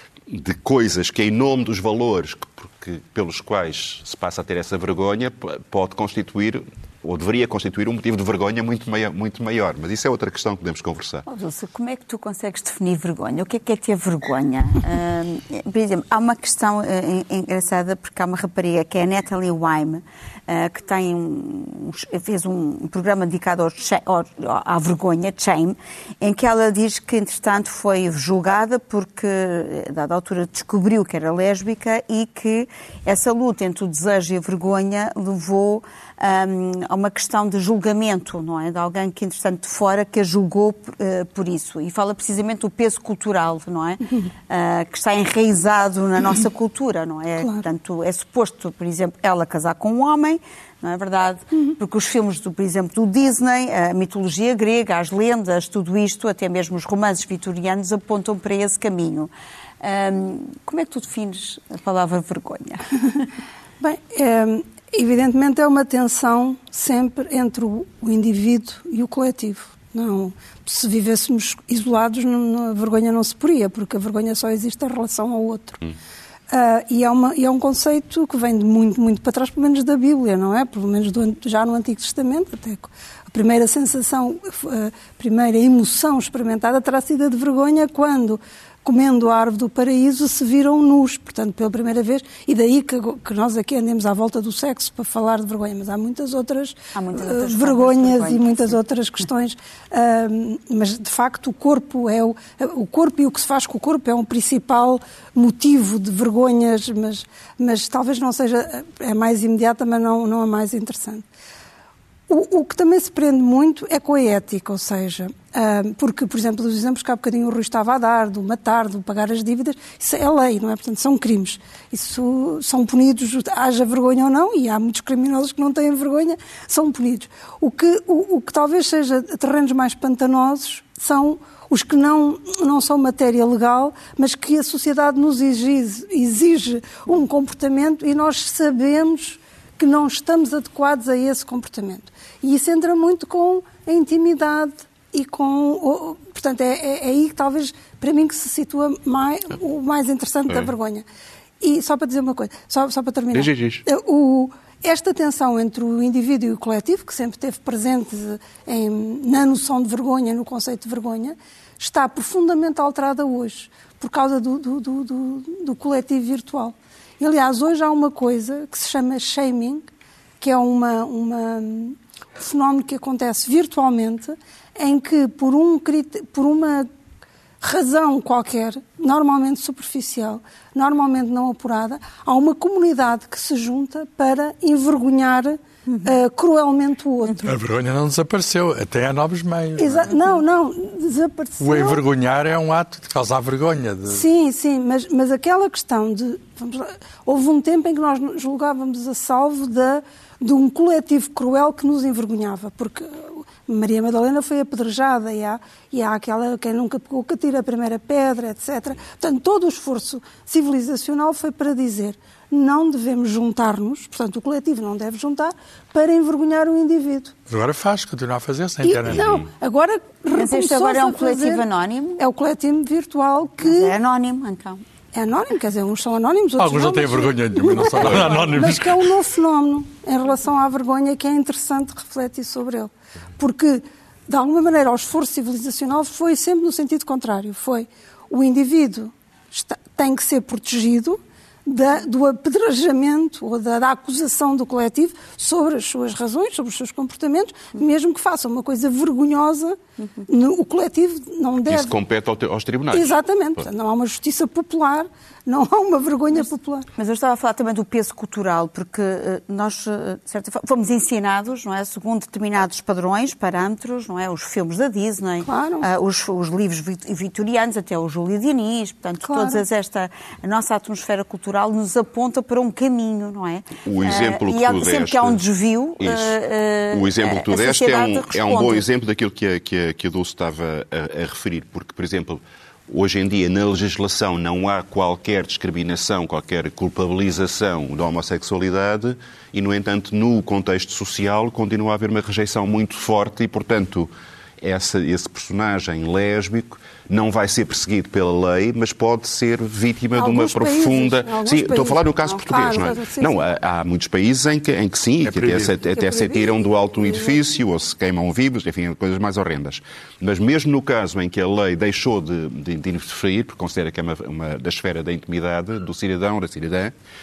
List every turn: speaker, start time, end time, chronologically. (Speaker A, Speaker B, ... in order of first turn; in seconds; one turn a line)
Speaker A: 0.3-11.2
Speaker B: 11.3-62.8
Speaker C: 47.4-47.7
Speaker C: 63.8-75.8
Speaker C: 76.5-111.3
Speaker B: 96.9-98.8
Speaker C: 112.3-151.1
Speaker C: 151.6-169.9
Speaker A: 153.3-153.8
Speaker C: 170.4-176.9
Speaker C: 177.6-187.6
Speaker B: 185.9-186.2
Speaker D: 187.4-190.1
Speaker C: 189.8-192.0
Speaker D: 191.6-194.2
Speaker C: 194.1-217.3
Speaker D: 217.5-219.4
Speaker C: 218.8-221.6
Speaker A: 219.1-219.5
Speaker B: 220.3-222.2
Speaker C: 222.2-223.9
Speaker B: 223.6-224.8
Speaker C: 225.1-252.0
Speaker D: 226.6-229.1
Speaker A: 227.9-228.3
Speaker B: 250.0-250.2
Speaker A: 251.7-253.7
Speaker C: 252.9-256.9
Speaker B: 257.0-278.9
Speaker C: 265.4-265.9
Speaker C: 269.2-269.6
Speaker A: 273.9-275.4
Speaker A: 276.0-276.4
Speaker A: 276.9-316.9
Speaker C: 300.2-303.4
Speaker D: 305.2-305.8
Speaker C: 305.9-307.4